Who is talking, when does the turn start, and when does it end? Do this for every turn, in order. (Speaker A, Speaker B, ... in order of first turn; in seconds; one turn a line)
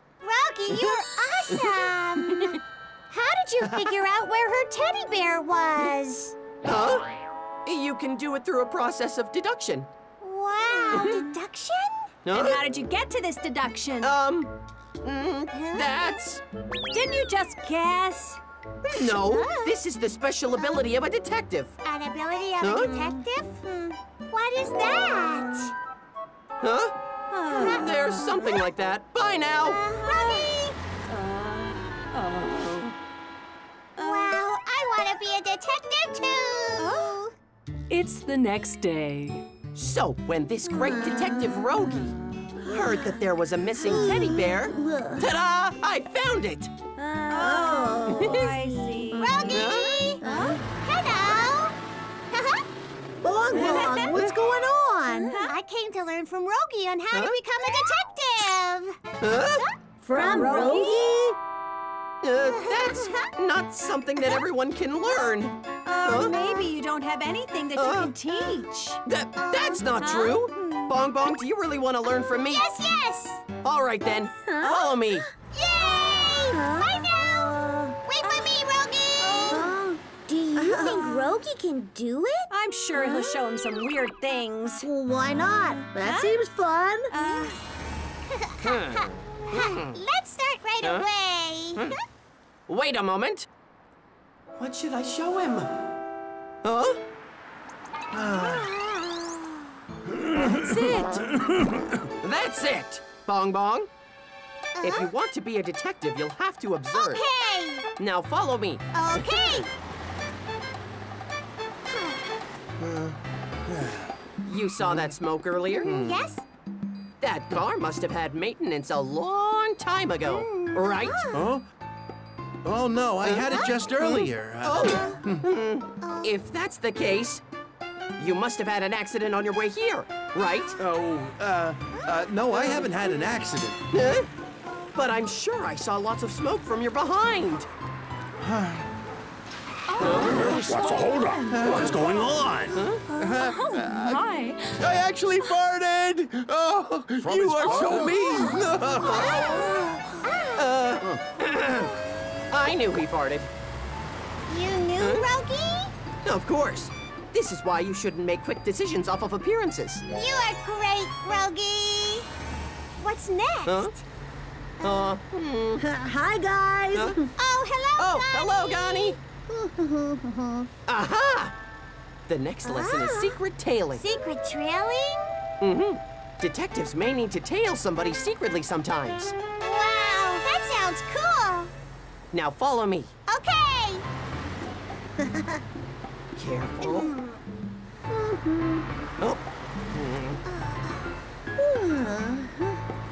Speaker A: 0.2-2.5
Speaker B: 0.7-1.0
Speaker B: 2.2-2.5
Speaker A: 3.1-6.3
Speaker B: 6.6-7.1
Speaker B: 7.6-9.9
Speaker A: 10.2-12.1
Speaker B: 10.8-11.3
Speaker B: 12.2-12.6
Speaker C: 12.3-14.1
Speaker B: 14.0-16.4
Speaker A: 15.5-16.1
Speaker C: 16.9-18.4
Speaker B: 18.9-21.7
Speaker A: 19.0-19.8
Speaker A: 21.8-25.7
Speaker B: 22.6-23.0
Speaker B: 26.6-26.9
Speaker C: 27.3-28.3
Speaker A: 27.5-28.6
Speaker B: 27.6-29.9
Speaker A: 29.6-30.8
Speaker C: 31.1-32.9
Speaker A: 34.0-37.3
Speaker C: 34.0-34.4
Speaker C: 36.8-37.1
Speaker C: 37.9-39.4
Speaker B: 39.8-42.1
Speaker A: 40.7-41.7
Speaker B: 42.7-46.7
Speaker A: 43.8-44.8
Speaker D: 43.9-45.2
Speaker C: 47.0-50.6
Speaker D: 47.4-48.2
Speaker A: 47.8-51.8
Speaker B: 48.0-48.5
Speaker B: 49.4-50.2
Speaker A: 52.3-52.6
Speaker D: 53.2-55.3
Speaker B: 53.5-54.4
Speaker C: 53.5-54.2
Speaker A: 53.6-54.1
Speaker C: 55.1-55.5
Speaker A: 55.3-59.0
Speaker B: 59.2-59.6
Speaker A: 59.6-61.3
Speaker C: 60.0-61.3
Speaker D: 60.1-60.5
Speaker B: 62.2-66.3
Speaker A: 62.3-63.3
Speaker C: 65.8-69.0
Speaker B: 67.8-68.1
Speaker B: 69.0-72.6
Speaker A: 69.4-70.5
Speaker C: 70.0-70.9
Speaker A: 72.3-73.4
Speaker B: 73.6-75.3
Speaker A: 74.5-79.8
Speaker D: 77.4-78.0
Speaker C: 79.2-79.7
Speaker D: 79.5-82.0
Speaker A: 80.5-81.5
Speaker C: 80.9-81.2
Speaker A: 82.1-82.4
Speaker C: 82.5-84.9
Speaker D: 84.8-87.1
Speaker C: 85.9-86.4
Speaker C: 87.1-87.5
Speaker A: 88.3-91.9
Speaker B: 88.6-90.0
Speaker B: 92.7-93.5
Speaker B: 94.6-95.7
Speaker B: 96.6-97.0
Speaker B: 98.2-98.6
Speaker A: 98.2-99.6
Speaker B: 100.4-101.4
Speaker B: 102.2-103.9
Speaker A: 104.8-105.1
Speaker B: 104.8-107.2
Speaker A: 106.9-107.9
Speaker B: 108.0-109.6
Speaker A: 108.9-109.7
Speaker A: 111.9-112.2
Speaker E: 112.8-113.2
Speaker B: 114.4-116.2
Speaker A: 115.7-116.4
Speaker B: 117.2-121.2
Speaker A: 120.2-121.5
Speaker E: 121.3-121.6
Speaker E: 122.6-125.4
Speaker B: 123.2-127.4
Speaker A: 123.4-123.8
Speaker A: 124.9-125.2
Speaker A: 126.0-126.4
Speaker B: 128.2-130.8
Speaker E: 130.8-133.8
Speaker B: 133.9-134.3
Speaker B: 134.9-137.7
Speaker E: 138.4-138.8
Speaker C: 139.9-140.7
Speaker B: 140.0-140.8
Speaker F: 140.2-142.8
Speaker E: 141.5-142.3
Speaker B: 141.7-142.1
Speaker B: 142.7-143.0
Speaker E: 143.2-144.2
Speaker C: 143.3-144.8
Speaker E: 144.8-149.8
Speaker F: 147.2-147.9
Speaker B: 147.5-149.6
Speaker A: 148.4-150.8
Speaker B: 150.6-151.9
Speaker B: 152.5-153.5
Speaker A: 154.5-155.9
Speaker B: 155.0-155.2
Speaker B: 156.2-160.0
Speaker A: 160.1-162.2
Speaker A: 163.0-164.0
Speaker B: 163.7-163.9
Speaker B: 164.8-165.8
Speaker A: 164.8-165.1
Speaker D: 165.8-167.2
Speaker B: 166.9-167.2
Speaker A: 167.3-169.2
Speaker B: 168.0-169.2
Speaker D: 169.7-170.7
Speaker B: 170.9-171.5
Speaker B: 172.3-174.0
Speaker A: 172.6-173.4
Speaker A: 173.9-175.3
Speaker B: 175.6-179.3
Speaker A: 179.6-181.7
Speaker B: 182.3-183.1
Speaker A: 183.3-184.0
Speaker B: 186.4-187.1
Speaker A: 186.8-187.4
Speaker A: 188.1-188.8
Speaker B: 189.2-190.4
Speaker A: 190.5-192.5